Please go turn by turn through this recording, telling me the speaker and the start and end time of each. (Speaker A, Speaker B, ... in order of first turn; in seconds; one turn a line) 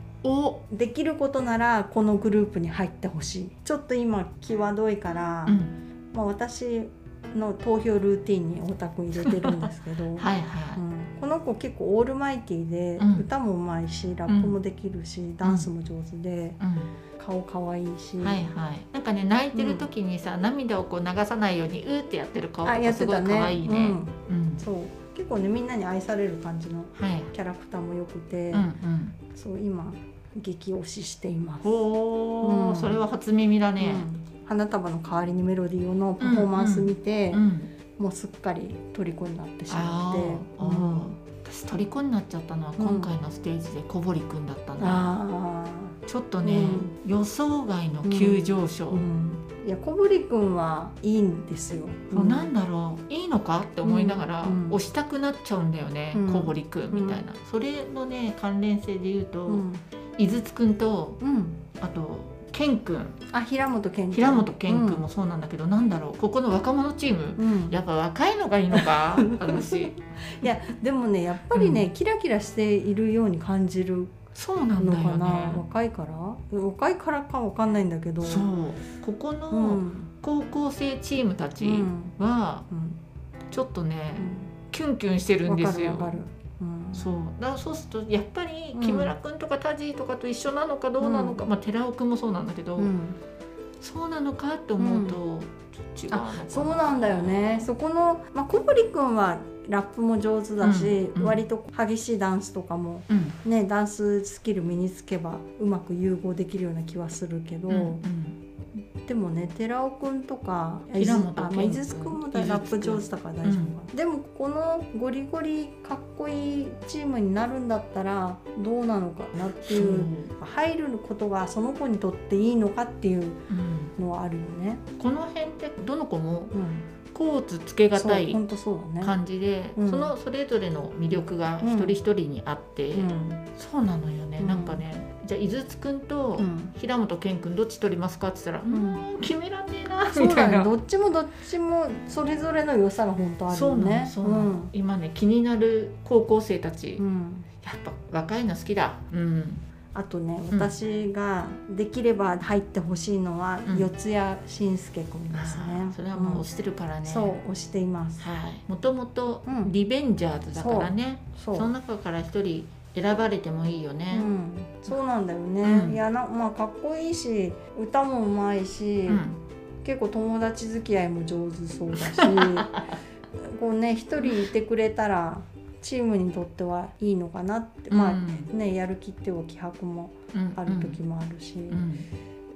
Speaker A: 0.2-0.6
Speaker B: 0.7-16.6
Speaker A: 5.5-5.7
Speaker A: 9.2-10.8
Speaker A: 13.0-13.2
Speaker A: 14.3-14.6
Speaker A: 15.4-15.7
Speaker A: 16.6-16.9
Speaker B: 17.1-18.4
Speaker A: 18.2-24.6
Speaker B: 19.5-19.9
Speaker B: 22.6-28.7
Speaker A: 26.9-27.3
Speaker A: 28.5-29.2
Speaker B: 29.3-31.8
Speaker A: 31.6-34.1
Speaker B: 32.4-33.0
Speaker B: 33.8-37.4
Speaker A: 36.2-37.7
Speaker B: 38.0-41.2
Speaker A: 39.7-45.1
Speaker B: 42.8-43.1
Speaker B: 44.8-46.9
Speaker A: 46.1-49.0
Speaker B: 48.0-52.5
Speaker A: 52.1-59.6
Speaker B: 53.8-54.8
Speaker B: 56.1-57.2
Speaker B: 59.5-59.8
Speaker A: 60.2-61.2
Speaker B: 61.2-61.6
Speaker A: 61.8-63.2
Speaker B: 63.3-65.0
Speaker A: 64.1-70.0
Speaker B: 67.4-67.8
Speaker B: 68.7-74.1
Speaker A: 71.5-71.8
Speaker A: 74.3-75.6
Speaker B: 74.8-78.5
Speaker A: 78.2-82.7
Speaker B: 79.5-80.1
Speaker B: 81.6-82.1
Speaker B: 82.7-83.0
Speaker A: 83.5-86.2
Speaker B: 84.2-84.5
Speaker B: 85.4-87.0
Speaker A: 86.9-92.9
Speaker B: 88.7-89.1
Speaker B: 91.0-91.4
Speaker B: 92.8-93.2
Speaker A: 93.8-97.7
Speaker B: 94.8-95.2
Speaker B: 96.1-108.0
Speaker A: 100.6-101.4
Speaker A: 103.1-103.4
Speaker A: 107.7-108.4
Speaker B: 109.0-123.4
Speaker A: 111.0-113.7
Speaker A: 119.6-120.3
Speaker A: 123.5-123.9
Speaker B: 124.0-124.8
Speaker A: 125.0-126.5
Speaker B: 126.5-126.9
Speaker A: 127.1-128.4
Speaker B: 127.9-129.2
Speaker A: 129.0-140.7
Speaker B: 129.8-130.1
Speaker B: 131.6-131.9
Speaker B: 132.9-133.4
Speaker B: 134.4-134.8
Speaker B: 136.4-136.7
Speaker B: 138.7-139.0
Speaker B: 140.1-144.7
Speaker A: 143.5-147.0
Speaker B: 147.0-147.5
Speaker A: 147.6-149.6
Speaker B: 149.9-156.4
Speaker A: 155.3-157.3
Speaker B: 157.0-158.2
Speaker A: 158.2-164.3
Speaker B: 159.4-159.7
Speaker B: 160.5-161.7
Speaker B: 164.1-169.2
Speaker A: 165.6-166.0
Speaker A: 169.1-169.4
Speaker B: 169.8-172.8
Speaker A: 172.2-172.5
Speaker B: 173.4-181.8
Speaker A: 177.9-178.5
Speaker A: 180.3-181.0
Speaker A: 181.7-182.1